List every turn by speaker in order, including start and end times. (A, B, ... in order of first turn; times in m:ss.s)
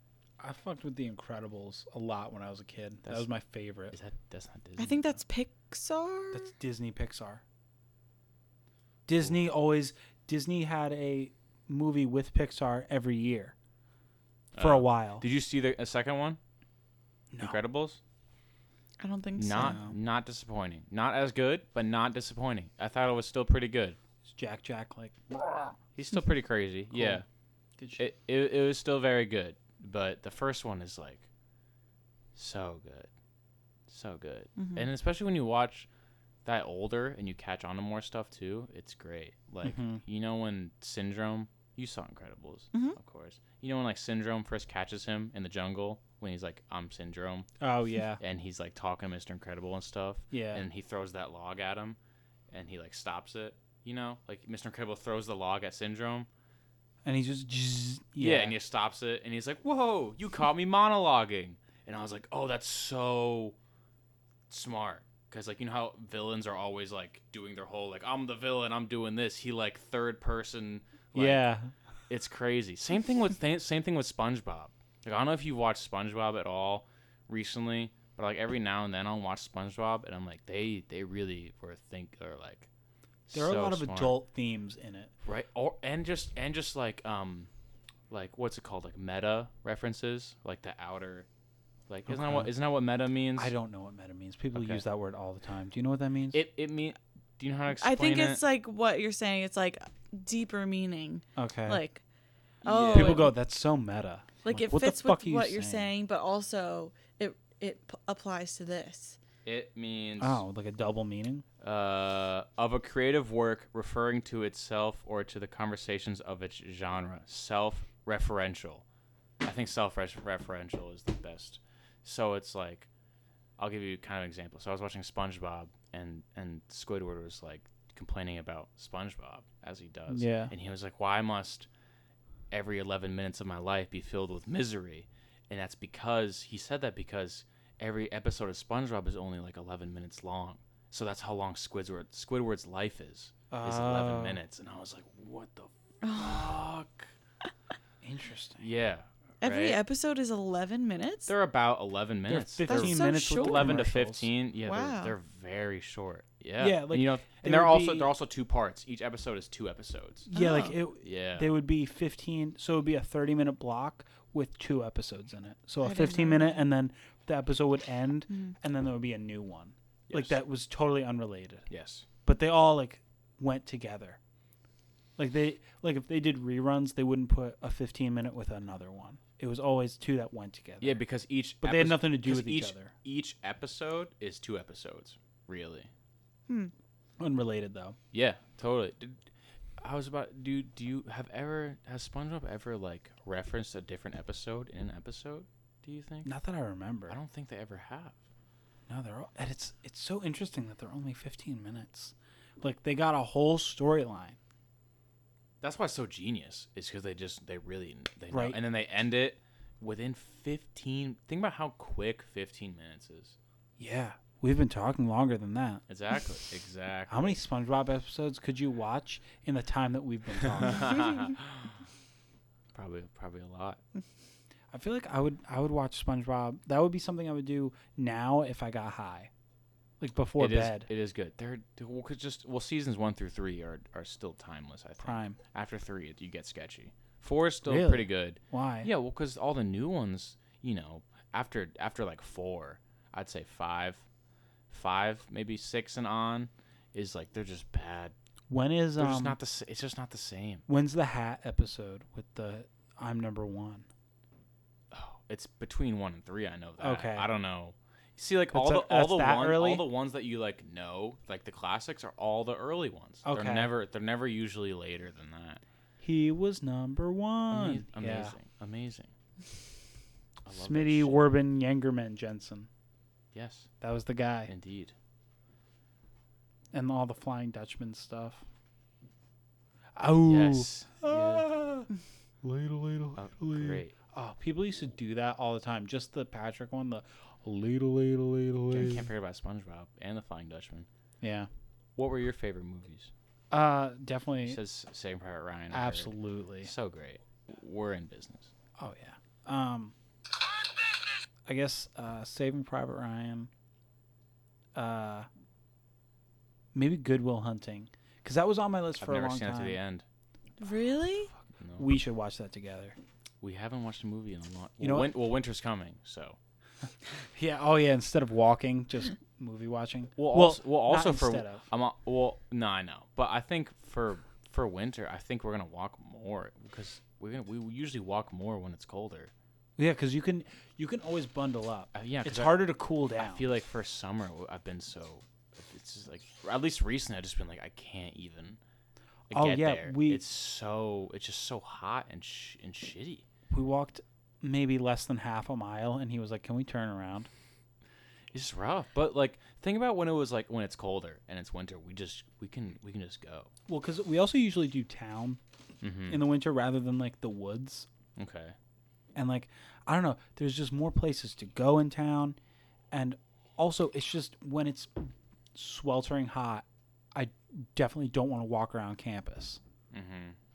0:00.4-0:03.9 A
0:03.9-0:05.2 B
0:04.8-0:06.5 C
0:06.3-0:07.4 A
0:09.1-0:13.5 A
0:14.5-0:16.4 B
0:14.6-0:15.3 A
0:17.3-0:17.6 A
0:17.4-0:18.0 B
0:19.0-0:19.8 C
0:19.4-0:24.0 B
0:19.6-0:20.0 A
0:24.2-0:25.8 A
0:26.0-0:27.3 B
0:26.9-0:27.2 A
0:28.0-0:31.3 B
0:32.4-0:33.1 B
0:33.9-0:35.9 B
0:34.6-0:34.9 C
0:36.4-0:47.5 B
0:39.6-0:40.0 A
0:47.6-0:48.2 A
0:48.2-0:52.0 B
0:50.3-0:50.7 A
0:52.5-0:56.3 B
0:57.0-0:58.6 A
0:58.2-1:03.6 B
1:04.5-1:11.4 B
1:11.1-1:11.7 A
1:12.1-1:22.7 B
1:23.3-1:24.2 B
1:23.3-1:25.1 A
1:25.2-1:27.5 B
1:28.1-1:31.3 B
1:31.9-1:33.5 B
1:32.1-1:32.5 A
1:33.4-1:36.4 A
1:34.5-1:34.8 B
1:36.3-1:38.4 B
1:37.7-1:42.0 C
1:41.4-1:41.8 A
1:42.6-1:43.3 C
1:42.6-1:43.3 B
1:42.9-1:45.9 A
1:44.4-1:49.2 C
1:49.4-1:50.4 B
1:50.2-1:51.4 A
1:51.6-1:58.8 B
1:59.4-2:02.9 B
2:03.6-2:11.7 B
2:10.1-2:10.5 A
2:12.5-2:27.1 B
2:23.5-2:24.4 A
2:26.0-2:26.6 C
2:28.0-2:28.7 A
2:28.6-2:29.8 B
2:29.4-2:31.3 C
2:31.3-2:40.3 B
2:32.3-2:34.3 A
2:32.7-2:33.8 C
2:34.6-2:35.2 C
2:36.6-2:38.1 A
2:40.3-2:51.7 A
2:40.3-2:40.8 C
2:41.0-2:41.6 B
2:45.8-2:46.7 C
2:50.1-2:50.4 B
2:51.7-2:52.1 B
2:52.2-2:54.2 A
2:55.2-3:01.0 A
3:00.8-3:05.9 B
3:01.6-3:02.9 A
3:07.2-3:08.0 A
3:08.1-3:09.3 B
3:09.8-3:16.3 B
3:16.2-3:17.2 A
3:17.1-3:18.2 B
3:18.9-3:24.4 A
3:25.6-3:33.4 B
3:28.3-3:28.6 A
3:33.8-3:35.8 A
3:35.9-3:37.4 B
3:37.1-3:41.2 A
3:40.4-3:41.8 B
3:42.7-3:43.8 B
3:44.7-3:49.3 A
3:50.0-3:50.9 A
3:50.4-4:04.0 B
3:55.0-3:55.4 A
3:57.6-3:58.9 A
4:04.7-4:08.1 B
4:08.5-4:09.4 A
4:09.0-4:10.7 B
4:10.7-4:13.9 A
4:14.9-4:25.6 B
4:16.8-4:17.3 A
4:18.5-4:19.9 A
4:23.2-4:23.7 A
4:26.0-4:28.4 A
4:27.5-4:29.1 B
4:30.4-4:31.3 B
4:30.5-4:32.7 A
4:33.3-4:33.7 B
4:33.8-4:34.5 A
4:34.5-4:35.0 B
4:36.7-4:38.4 A
4:40.0-4:41.9 A
4:40.3-4:41.5 B
4:42.4-4:49.1 A
4:43.2-4:43.9 B
4:48.7-4:50.9 B
4:51.2-4:51.5 A
4:52.0-4:53.1 B
4:53.5-4:54.6 A
4:54.4-4:58.5 B
4:55.7-4:56.7 A
4:58.8-4:59.9 A
5:01.5-5:03.5 A
5:04.8-5:05.3 A
5:06.7-5:09.8 A
5:09.0-5:10.0 B
5:10.6-5:11.3 C
5:11.6-5:11.9 B
5:11.8-5:13.0 A
5:13.4-5:16.4 B
5:14.8-5:15.1 A
5:17.3-5:21.6 A
5:20.2-5:29.3 B
5:29.8-5:33.5 A
5:31.9-5:38.6 B
5:39.3-5:43.2 B
5:39.3-5:40.2 A
5:43.5-5:47.3 A
5:48.3-5:53.5 B
5:53.7-5:55.4 A
5:55.8-5:56.2 B
5:56.1-5:57.9 A
5:58.2-5:58.6 B
5:59.2-6:02.4 A
6:02.9-6:09.6 A
6:09.9-6:10.4 B